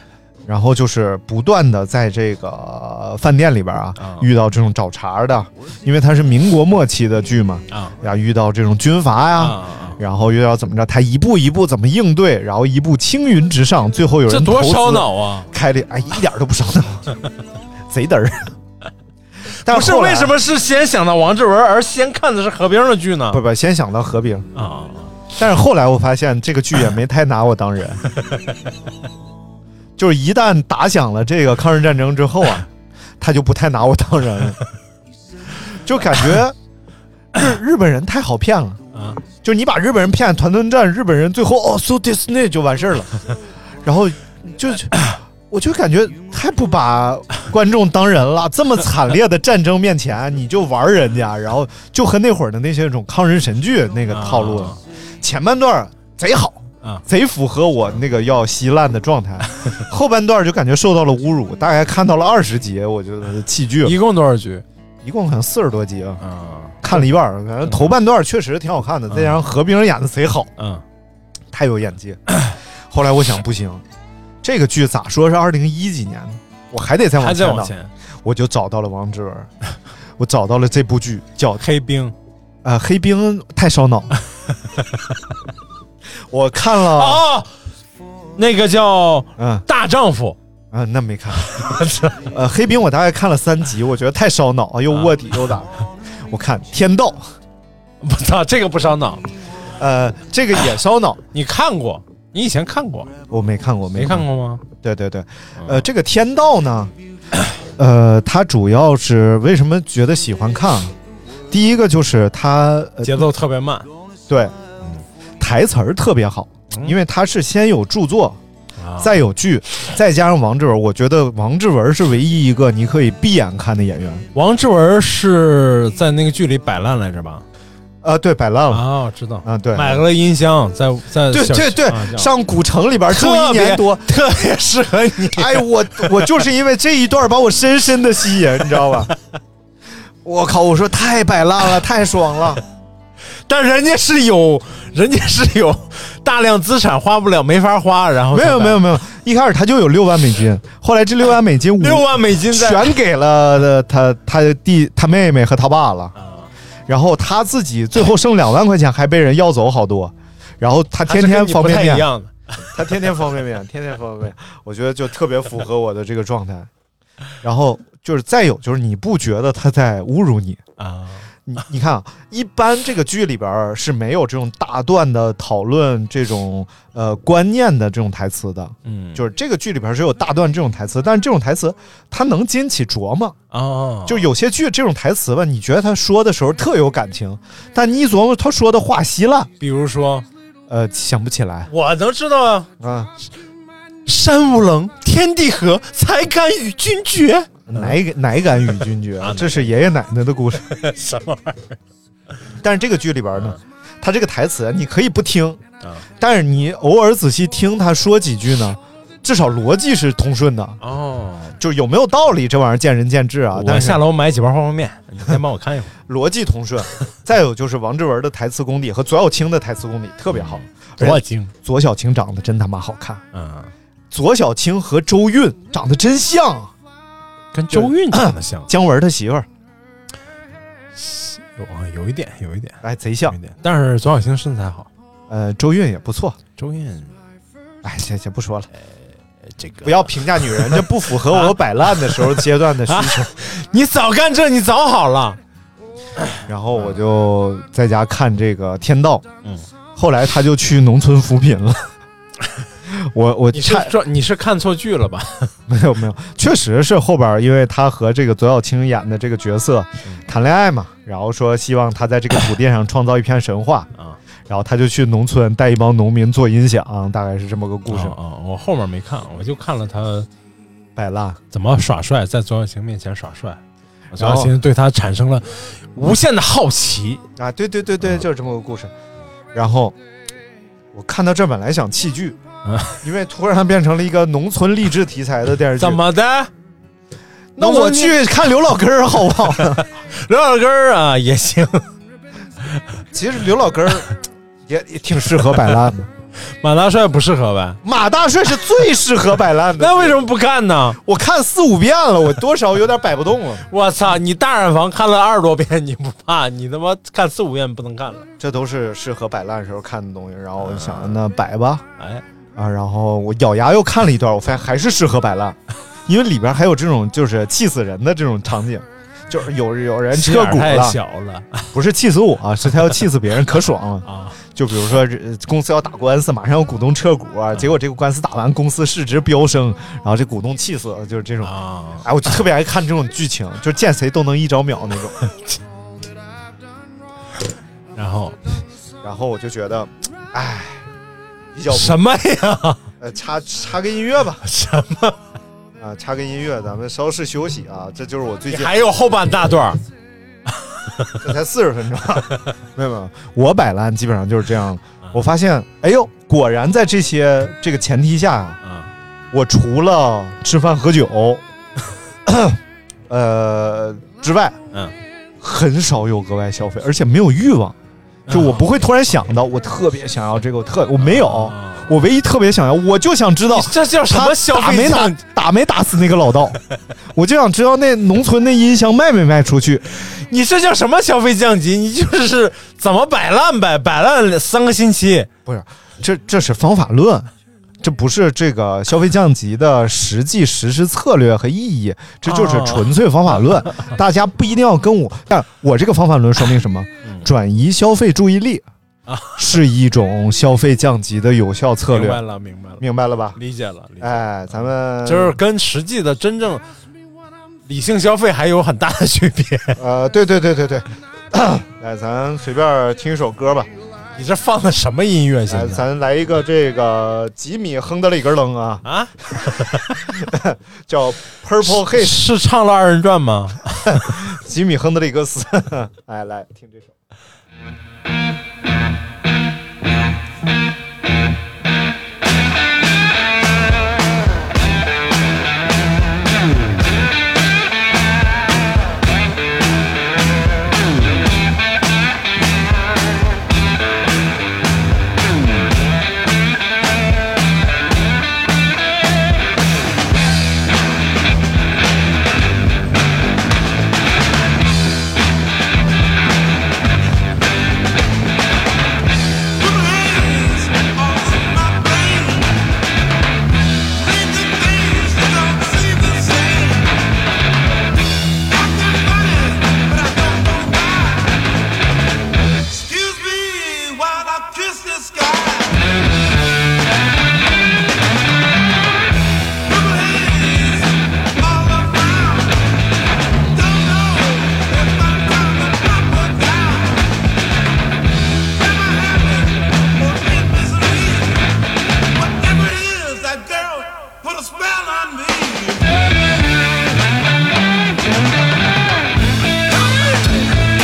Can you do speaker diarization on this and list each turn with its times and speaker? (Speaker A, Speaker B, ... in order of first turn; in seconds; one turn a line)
Speaker A: 0.5-17.1
Speaker B: 4.0-4.3
Speaker B: 9.4-10.0
Speaker B: 14.3-15.5
Speaker A: 17.9-18.5
Speaker A: 19.6-20.3
Speaker B: 19.6-23.4
Speaker A: 23.3-24.5
Speaker B: 24.5-25.1
Speaker A: 25.3-28.0
Speaker A: 30.0-32.7
Speaker A: 33.2-34.6
Speaker A: 35.7-36.6
Speaker A: 37.3-38.8
Speaker B: 38.9-39.2
Speaker A: 39.4-43.2
Speaker A: 43.8-64.0
Speaker B: 54.1-54.8
Speaker B: 63.8-64.6
Speaker A: 65.0-66.2
Speaker B: 66.2-67.1
Speaker A: 66.8-70.5
Speaker B: 67.6-67.9
Speaker B: 69.1-69.4
Speaker B: 70.6-70.8
Speaker A: 71.5-72.2
Speaker A: 72.9-73.8
Speaker A: 74.4-79.5
Speaker B: 77.2-77.9
Speaker A: 80.2-81.6
Speaker B: 81.6-82.1
Speaker A: 82.6-84.1
Speaker A: 86.3-87.2
Speaker B: 86.9-87.5
Speaker B: 88.4-90.4
Speaker A: 89.4-89.6
Speaker A: 90.7-91.5
Speaker B: 91.5-92.3
Speaker A: 92.3-95.7
Speaker A: 96.3-97.3
Speaker B: 98.0-99.2
Speaker A: 99.8-101.2
Speaker B: 101.3-103.1
Speaker A: 103.3-106.9
Speaker B: 104.0-104.6
Speaker B: 105.6-105.9
Speaker A: 107.8-110.9
Speaker A: 111.5-113.3
Speaker B: 113.0-113.9
Speaker A: 114.3-114.5
Speaker A: 115.4-118.4
Speaker B: 118.8-119.1
Speaker A: 119.0-124.3
Speaker B: 124.3-127.4
Speaker A: 128.0-128.9
Speaker B: 128.7-132.3
Speaker A: 129.4-130.0
Speaker A: 131.3-134.1
Speaker B: 133.1-136.3
Speaker A: 135.2-139.1
Speaker A: 140.2-142.6
Speaker B: 143.5-148.9
Speaker A: 148.3-156.1
Speaker B: 151.8-152.9
Speaker B: 156.2-156.5
Speaker A: 156.9-162.1
Speaker B: 161.1-162.3
Speaker A: 162.7-166.7
Speaker A: 167.4-170.6
Speaker B: 170.8-171.2
Speaker A: 171.5-183.4
Speaker B: 178.8-179.2
Speaker B: 183.5-184.3
Speaker A: 184.1-189.5
Speaker B: 189.6-190.3
Speaker A: 190.7-191.7
Speaker B: 191.7-192.7
Speaker A: 192.8-193.1
Speaker B: 194.1-197.9
Speaker A: 197.7-200.7
Speaker B: 199.2-199.7
Speaker B: 200.6-201.8
Speaker A: 202.6-205.6
Speaker A: 206.2-210.8
Speaker B: 210.8-211.6
Speaker A: 211.6-214.0
Speaker B: 213.5-215.9
Speaker A: 216.1-223.2
Speaker B: 220.3-221.5
Speaker B: 223.3-223.7
Speaker A: 224.1-226.7
Speaker B: 227.5-228.7
Speaker A: 227.7-229.5
Speaker B: 230.9-234.9
Speaker A: 232.8-233.4
Speaker A: 235.3-236.4
Speaker B: 236.6-237.1
Speaker A: 237.8-238.7
Speaker B: 239.5-245.4
Speaker A: 239.8-243.3
Speaker B: 246.2-247.0
Speaker A: 246.5-249.2
Speaker A: 249.9-251.9
Speaker A: 252.9-253.9
Speaker B: 253.5-255.5
Speaker A: 255.7-263.9
Speaker A: 264.5-268.1
Speaker B: 267.9-270.3
Speaker A: 270.9-271.4
Speaker B: 271.5-273.6
Speaker B: 274.1-277.2
Speaker A: 274.1-274.5
Speaker A: 277.4-278.9
Speaker A: 279.5-279.9
Speaker A: 280.9-282.4
Speaker B: 282.6-283.0
Speaker A: 283.0-286.0
Speaker B: 285.8-286.5
Speaker A: 287.6-289.8
Speaker B: 287.6-288.3
Speaker B: 289.5-291.9
Speaker A: 293.1-294.1
Speaker A: 294.7-296.1
Speaker B: 296.6-297.8
Speaker A: 297.8-300.2
Speaker B: 299.8-301.0
Speaker A: 301.0-303.6
Speaker B: 303.7-308.3
Speaker A: 308.4-311.8
Speaker B: 310.6-311.2
Speaker A: 312.6-321.0
Speaker B: 320.1-321.7
Speaker A: 321.7-335.1
Speaker B: 324.1-324.4
Speaker B: 331.4-332.1
Speaker B: 337.9-338.4
Speaker A: 339.0-340.9
Speaker A: 341.6-342.0
Speaker B: 341.6-342.8
Speaker A: 343.0-344.4
Speaker B: 344.4-345.2
Speaker A: 345.8-348.8
Speaker B: 348.5-349.8
Speaker A: 351.2-358.6
Speaker B: 358.6-358.9
Speaker A: 359.3-361.4
Speaker A: 362.3-364.6
Speaker A: 365.4-367.8
Speaker B: 368.3-368.7
Speaker A: 368.3-376.6
Speaker B: 371.0-371.9
Speaker B: 373.5-375.1
Speaker A: 377.1-379.8
Speaker B: 379.9-385.3
Speaker A: 385.4-398.6
Speaker B: 392.3-393.9
Speaker B: 399.1-399.4
Speaker A: 399.4-402.2
Speaker B: 401.9-402.8
Speaker A: 402.8-403.4
Speaker B: 403.4-404.2
Speaker A: 404.0-405.4
Speaker B: 405.0-406.6
Speaker B: 407.7-409.8
Speaker A: 409.8-413.7
Speaker B: 414.1-415.9
Speaker A: 415.5-418.8
Speaker B: 418.8-420.1
Speaker A: 420.1-422.2
Speaker B: 421.6-424.1
Speaker A: 423.9-426.9
Speaker C: 459.6-462.6
Speaker C: 463.9-466.9
Speaker C: 468.5-471.4
Speaker C: 472.7-475.8
Speaker C: 479.7-482.6
Speaker C: 483.6-487.1
Speaker C: 488.6-491.4
Speaker C: 492.2-495.9
Speaker C: 499.7-500.5